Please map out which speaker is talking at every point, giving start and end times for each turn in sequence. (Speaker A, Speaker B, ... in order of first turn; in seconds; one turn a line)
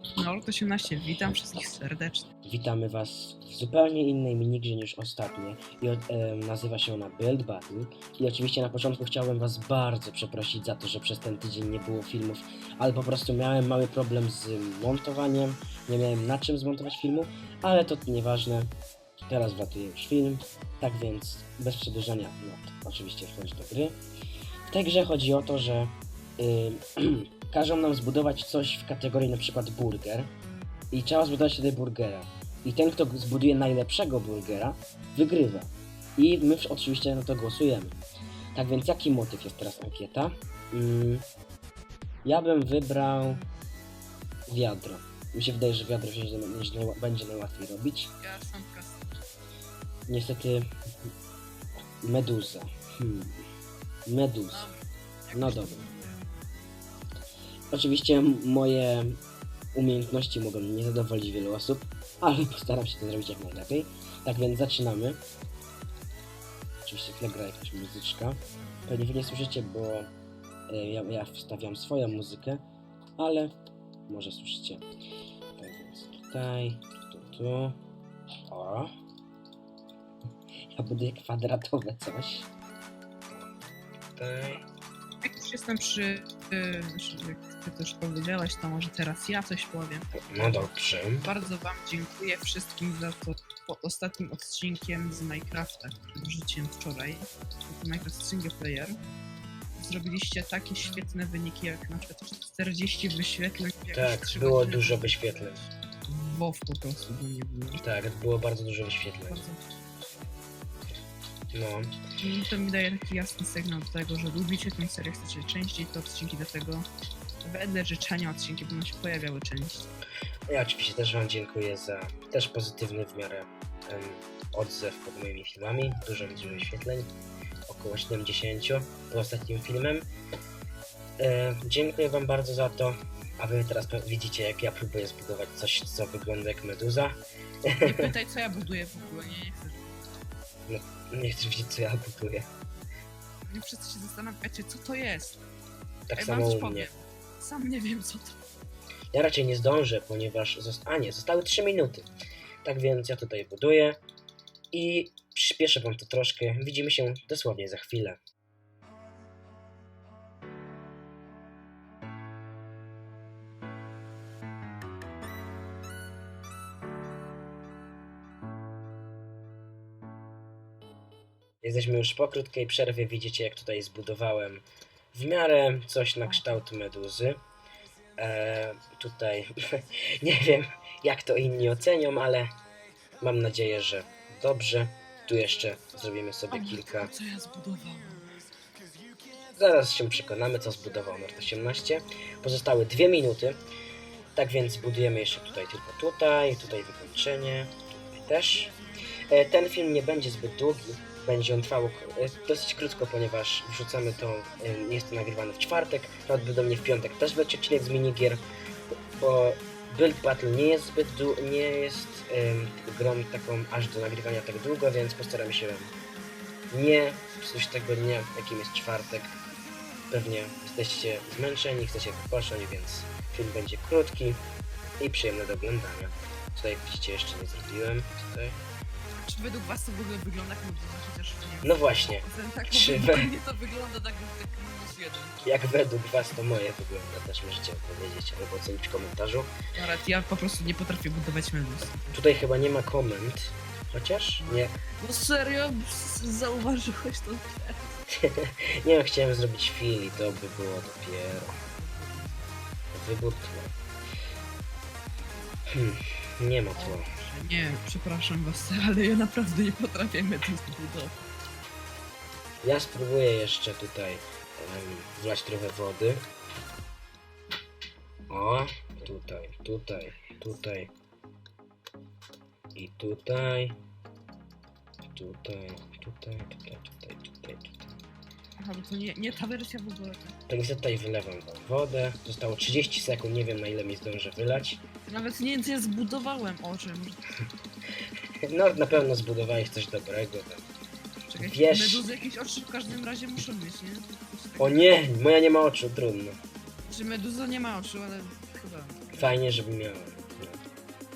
Speaker A: 0.2-2.3
Speaker B: 2.5-18.7
Speaker B: 19.3-24.0
Speaker B: 24.7-30.3
Speaker B: 30.9-38.0
Speaker B: 38.5-41.2
Speaker B: 42.2-43.4
Speaker B: 44.5-48.1
Speaker A: 48.2-48.9
Speaker B: 50.1-50.7
Speaker B: 52.0-53.4
Speaker B: 54.0-54.7
Speaker A: 54.5-56.3
Speaker B: 55.3-55.8
Speaker B: 57.7-59.2
Speaker B: 59.7-65.2
Speaker B: 66.8-70.1
Speaker B: 70.7-72.6
Speaker B: 73.2-73.6
Speaker B: 74.1-74.9
Speaker B: 75.6-77.8
Speaker B: 78.5-78.9
Speaker B: 80.8-82.5
Speaker B: 84.1-84.6
Speaker A: 85.2-90.7
Speaker B: 90.2-91.3
Speaker A: 91.2-99.0
Speaker A: 99.8-107.8
Speaker B: 103.9-105.6
Speaker B: 107.8-109.5
Speaker A: 109.3-109.7
Speaker B: 111.5-111.9
Speaker A: 112.2-116.9
Speaker A: 117.4-119.9
Speaker B: 120.5-127.1
Speaker B: 127.7-130.1
Speaker B: 131.2-138.1
Speaker A: 137.8-140.0
Speaker B: 140.7-142.5
Speaker A: 143.5-145.4
Speaker B: 146.1-146.9
Speaker A: 146.2-148.4
Speaker B: 149.1-152.1
Speaker B: 152.6-154.0
Speaker B: 154.7-158.2
Speaker B: 171.6-177.4
Speaker A: 176.2-176.6
Speaker B: 178.2-182.5
Speaker B: 183.2-187.1
Speaker A: 186.5-188.3
Speaker B: 189.5-193.6
Speaker B: 194.3-198.7
Speaker B: 199.3-208.4
Speaker B: 209.2-215.9
Speaker B: 216.7-219.3
Speaker B: 220.1-224.4
Speaker B: 225.0-228.6
Speaker A: 229.2-235.4
Speaker B: 231.6-233.3
Speaker B: 235.4-239.5
Speaker A: 239.7-242.2
Speaker B: 242.1-244.7
Speaker A: 244.4-248.0
Speaker B: 248.1-251.6
Speaker A: 251.6-252.5
Speaker B: 252.9-253.7
Speaker B: 255.7-257.1
Speaker A: 256.8-261.2
Speaker B: 262.6-266.2
Speaker B: 268.3-270.9
Speaker B: 272.8-273.8
Speaker B: 275.1-277.9
Speaker A: 278.6-280.4
Speaker B: 280.5-284.8
Speaker A: 285.1-287.3
Speaker B: 288.5-290.6
Speaker A: 291.3-294.8
Speaker B: 291.4-292.1
Speaker B: 294.6-296.4
Speaker A: 296.9-299.5
Speaker B: 299.1-300.6